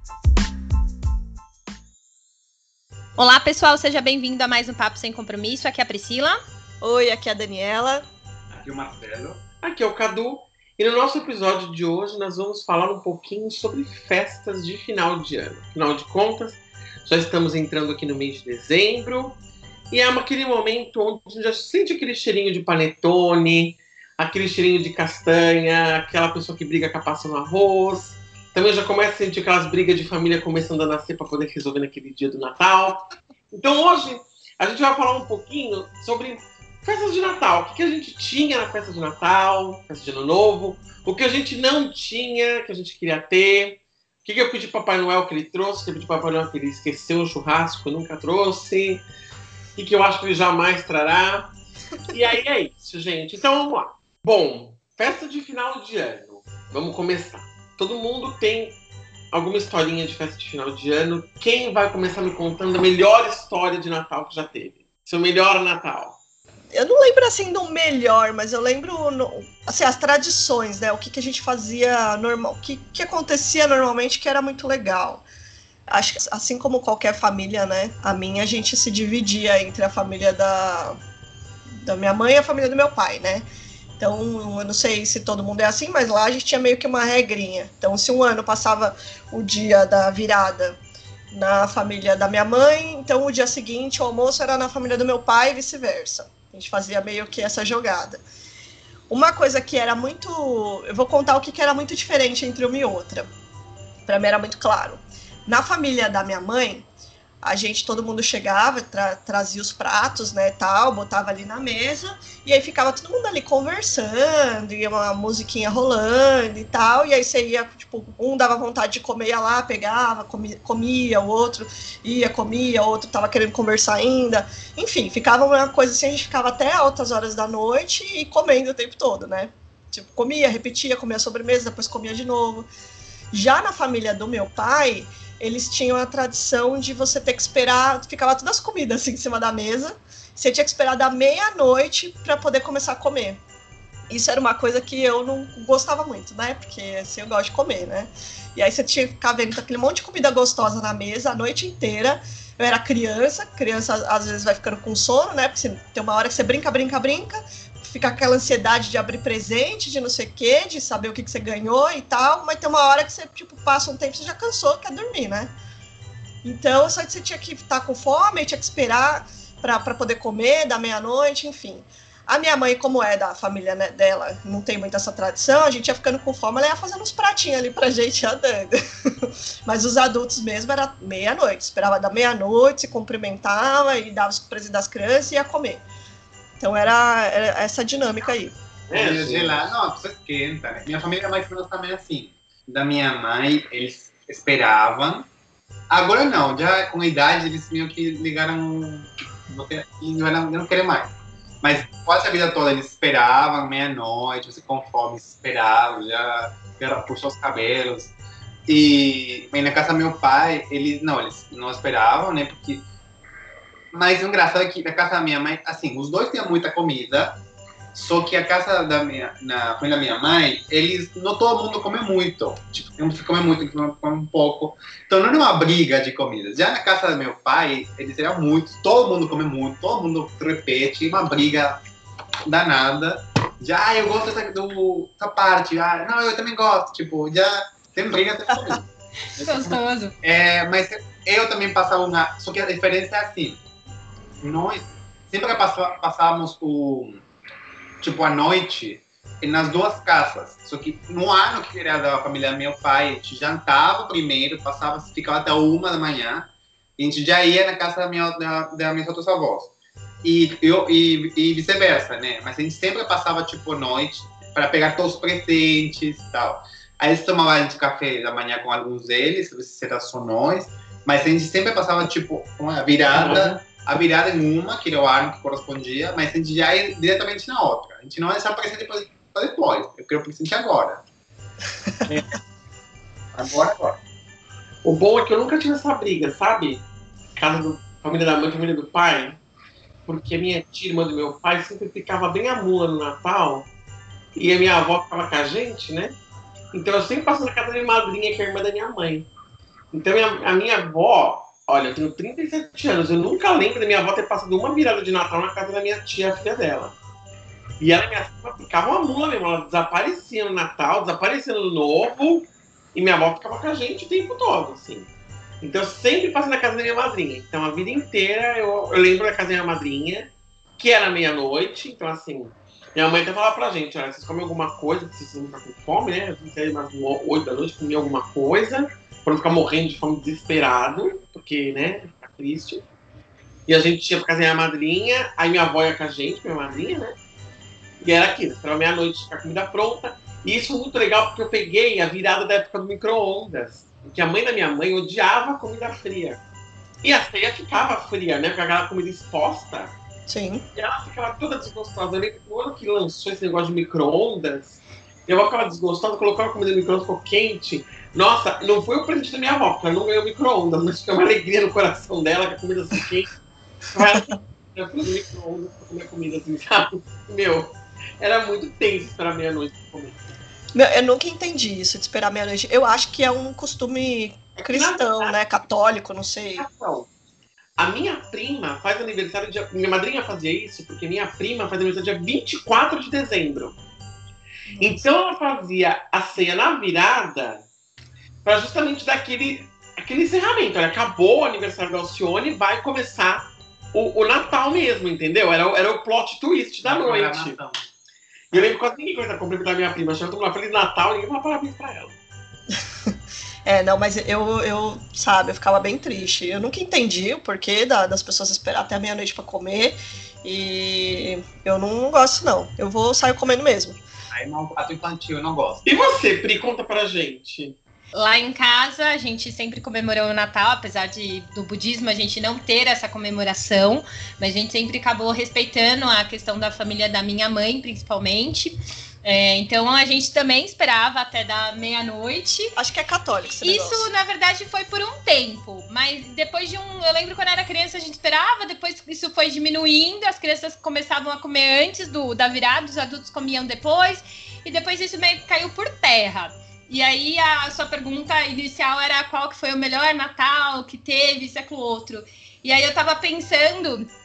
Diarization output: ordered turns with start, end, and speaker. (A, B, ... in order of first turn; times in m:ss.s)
0:03.2-0:06.4 A
0:06.8-0:08.0 B
0:08.5-0:09.4 C
0:09.6-0:19.4 D
0:19.9-0:49.0 D
0:49.8-0:51.5 D
0:52.1-0:58.8 D
0:59.3-1:06.2 D
1:06.7-1:15.2 B
1:15.9-1:21.0 B
1:21.8-1:23.4 B
1:24.0-1:30.8 B
1:31.3-1:38.2 B
1:39.1-1:43.3 B
1:44.0-1:46.9 B
1:47.4-2:12.7 B
2:13.3-2:23.4 B
2:24.1-2:45.5 B
2:46.4-3:05.8 B
3:06.6-3:08.6 B
3:08.9-3:09.7 D
3:08.9-3:15.3 C
3:15.9-3:28.1 C
3:28.7-3:32.8 C
3:33.9-3:37.4 C
3:37.9-3:51.8 C
3:52.5-3:58.8 C
3:59.4-4:00.1 A
3:59.4-4:03.6 C
4:04.4-4:07.2 C
4:08.0-4:19.7 C
4:20.2-4:41.0 C
4:33.0-4:33.6 D
4:42.0-4:42.4 C
4:43.3-4:44.0 C
4:44.8-4:49.4 D
4:50.1-4:53.7 D
4:54.4-4:56.2 D
4:56.7-4:59.3 D
4:59.9-5:07.0 D
5:07.8-5:15.1 D
5:15.6-5:32.9 D
5:33.7-5:37.2 D
5:38.0-5:46.4 D
5:47.0-5:49.9 D
5:50.3-5:50.6 B
5:50.7-6:03.3 D
6:03.9-6:10.2 D
6:04.0-6:04.2 B
6:10.7-6:16.6 B
6:14.6-6:15.4 D
6:16.6-6:17.1 D
6:17.8-6:23.8 D
6:24.7-6:25.1 B
6:24.8-6:27.6 D
6:28.4-6:37.6 D
6:36.8-6:37.9 C
6:38.5-6:42.2 D
6:38.5-6:38.8 C
6:43.6-6:54.0 B
6:54.3-6:55.8 C
6:55.8-6:57.8 D
6:58.1-7:12.7 A
7:12.8-7:14.1 B
7:13.5-7:34.1 A